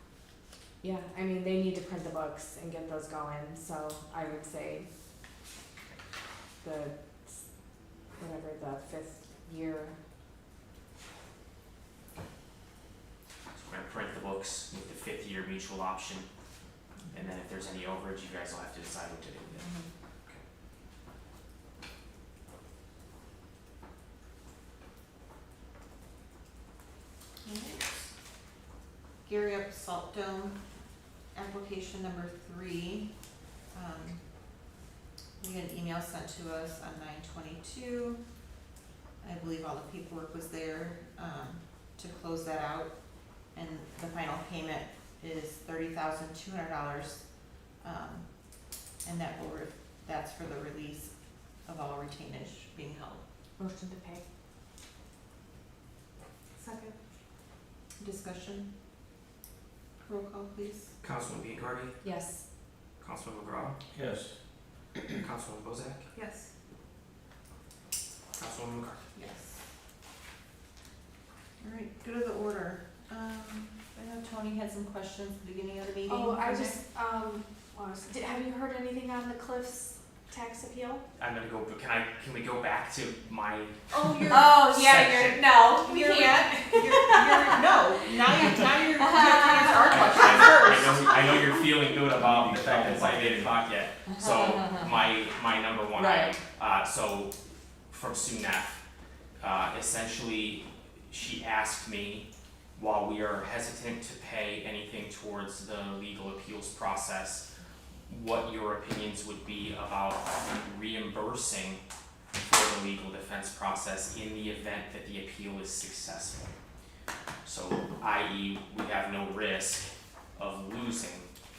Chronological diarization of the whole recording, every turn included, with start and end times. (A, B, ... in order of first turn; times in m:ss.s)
0:00.8-0:04.9 A
0:06.6-0:07.4 A
0:08.2-0:10.0 A
0:13.5-0:16.3 B
0:17.1-0:19.6 B
0:27.4-0:28.1 C
0:29.2-0:30.6 C
0:31.3-0:33.1 C
0:33.7-0:34.2 C
0:35.4-0:38.2 C
0:39.2-0:53.2 C
0:53.6-0:54.2 A
0:56.6-0:56.9 A
0:58.0-0:58.7 C
1:00.0-1:00.9 C
1:01.0-1:01.9 B
1:02.0-1:02.4 A
1:03.0-1:03.8 B
1:04.0-1:04.2 D
1:05.1-1:06.0 B
1:08.4-1:09.0 B
1:09.1-1:09.6 C
1:11.6-1:16.8 C
1:16.1-1:21.0 A
1:21.2-1:25.6 B
1:23.9-1:24.6 C
1:24.2-1:27.5 A
1:25.8-1:31.4 C
1:29.0-1:29.9 A
1:29.8-1:37.4 B
1:31.6-1:33.6 D
1:34.2-1:34.8 C
1:36.0-1:36.3 A
1:37.9-1:38.8 B
1:39.4-1:47.4 B
1:48.1-1:51.8 B
1:52.4-1:56.5 B
1:57.4-2:01.3 B